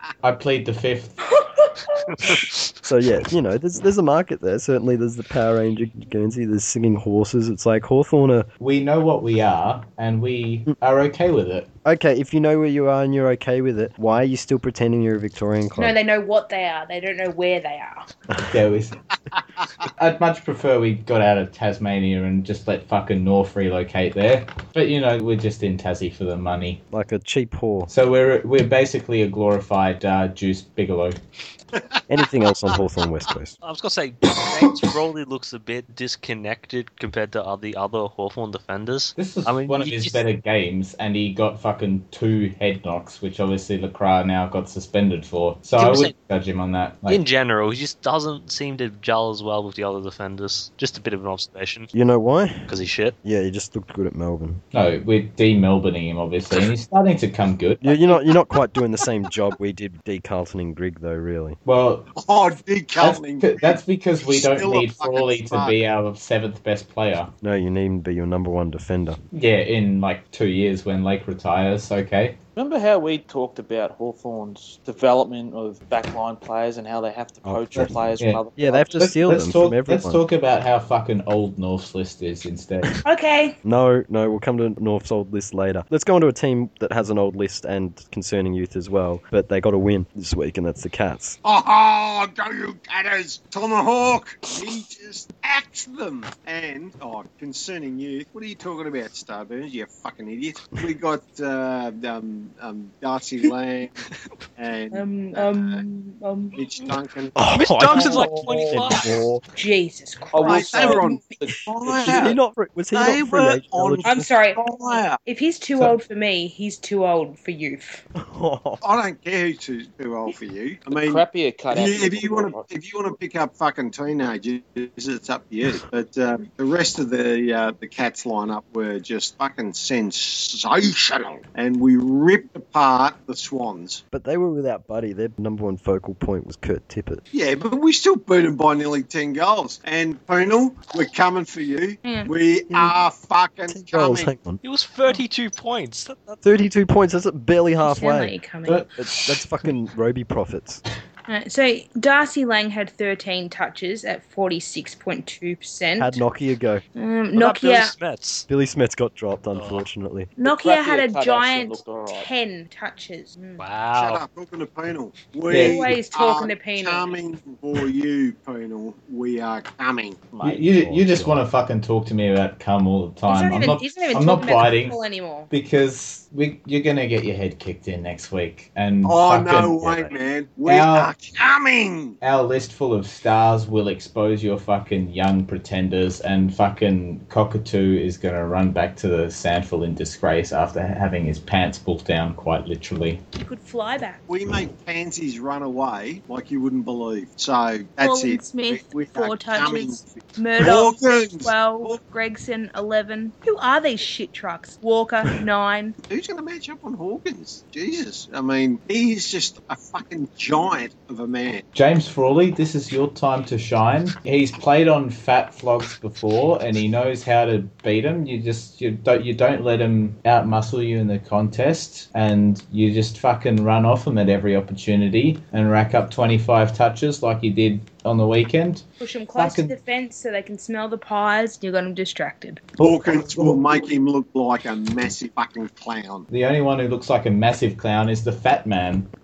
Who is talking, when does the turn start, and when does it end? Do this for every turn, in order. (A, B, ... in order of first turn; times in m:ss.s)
0:00.2-0:01.2 A
0:01.4-0:02.3 B
0:02.1-0:02.4 C
0:02.8-0:08.5 D
0:08.6-0:11.7 A
0:11.8-0:16.0 D
0:15.8-0:18.0 B
0:18.3-0:18.6 D
0:18.4-0:18.9 A
0:20.0-0:26.8 A
0:26.9-0:27.9 D
0:27.9-0:31.2 A
0:31.7-0:32.8 E
0:32.1-0:33.5 D
0:33.6-0:40.2 C
0:39.2-0:47.2 A
0:45.8-0:46.1 C
0:47.1-0:51.9 C
0:51.9-0:52.7 D
0:52.7-0:53.1 C
0:53.2-0:54.6 D
0:54.7-0:58.1 A
0:57.8-1:01.6 D
1:01.6-1:02.1 A
1:02.2-1:05.8 E
1:03.0-1:07.3 A
1:07.4-1:09.2 D
1:09.3-1:12.4 A
1:12.6-1:19.2 F
1:17.4-1:17.9 D
1:17.7-1:18.4 A
1:18.6-1:20.2 D
1:19.0-1:23.0 A
1:23.0-1:23.6 B
1:23.6-1:31.4 D
1:31.4-1:44.0 E
1:44.6-1:45.8 E
1:44.9-1:46.6 B
1:46.6-1:47.3 E
1:47.4-1:49.4 D
1:47.5-1:49.2 C
1:47.9-1:48.5 B
1:49.5-1:51.2 B
1:50.3-1:52.4 F
1:50.4-1:52.4 E
1:51.9-1:54.3 D
1:52.9-1:55.2 E
1:54.0-1:54.6 B
1:55.2-1:58.0 B
1:58.1-1:58.8 D
1:58.8-2:14.0 E
2:00.9-2:02.7 F
2:14.1-2:17.2 D
2:17.3-2:24.3 E
2:22.0-2:22.3 B
2:23.7-2:24.6 D
2:24.6-2:26.4 C
2:26.4-2:28.3 D
2:27.8-2:28.8 B
2:28.6-2:29.4 A
2:29.0-2:30.8 D
2:31.3-2:36.2 B
2:36.0-2:36.8 D
2:37.0-2:37.9 B
2:37.3-2:38.5 C
2:38.5-2:40.3 D
2:39.5-2:39.8 C
2:40.4-2:43.6 B
2:40.4-2:42.3 F
2:43.6-2:44.2 C
2:44.0-2:50.3 E
2:45.5-2:46.0 A
2:45.5-2:47.2 B
2:50.3-2:50.8 F
2:50.4-3:01.1 A
2:50.8-2:51.4 D
2:53.3-2:55.5 B
2:59.0-3:02.2 E
3:02.2-3:13.2 A
3:13.4-3:14.2 B
3:14.3-3:22.0 E
3:18.0-3:26.0 B
3:26.1-3:31.6 E
3:31.7-3:49.7 A
3:49.0-3:52.6 B
3:52.8-3:56.3 E
3:56.3-3:59.1 A